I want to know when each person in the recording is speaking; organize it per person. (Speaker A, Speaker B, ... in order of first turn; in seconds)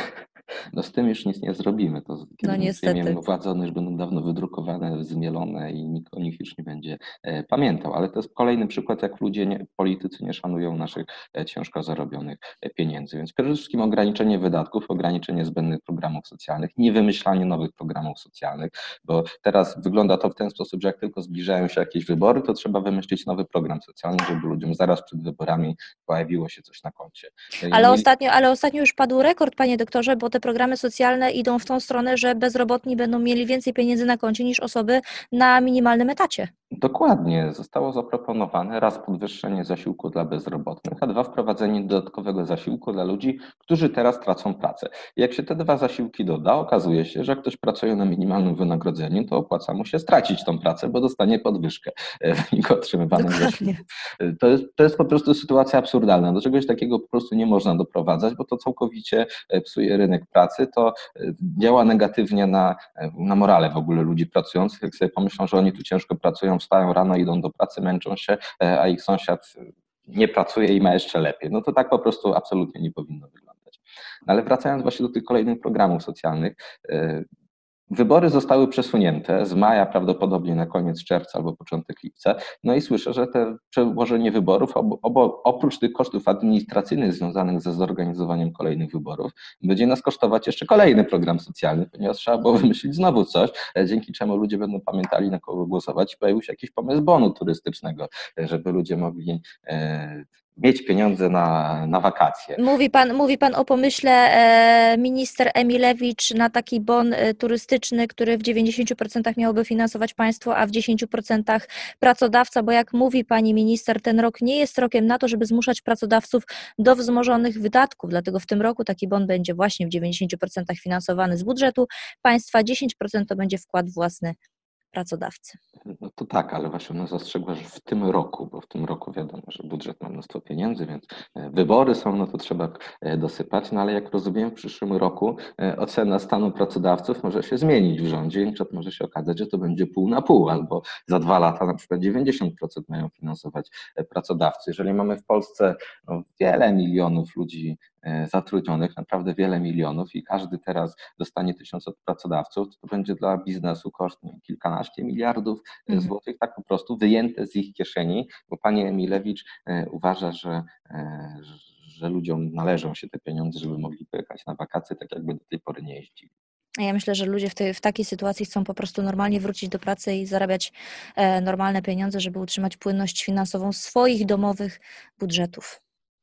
Speaker A: 0.7-28.1, 36.7-77.2, 77.9-102.6, 125.9-166.3
Speaker B: 2.4-3.2, 27.7-36.5, 53.1-53.8, 102.6-124.3, 124.9-125.6, 166.8-175.8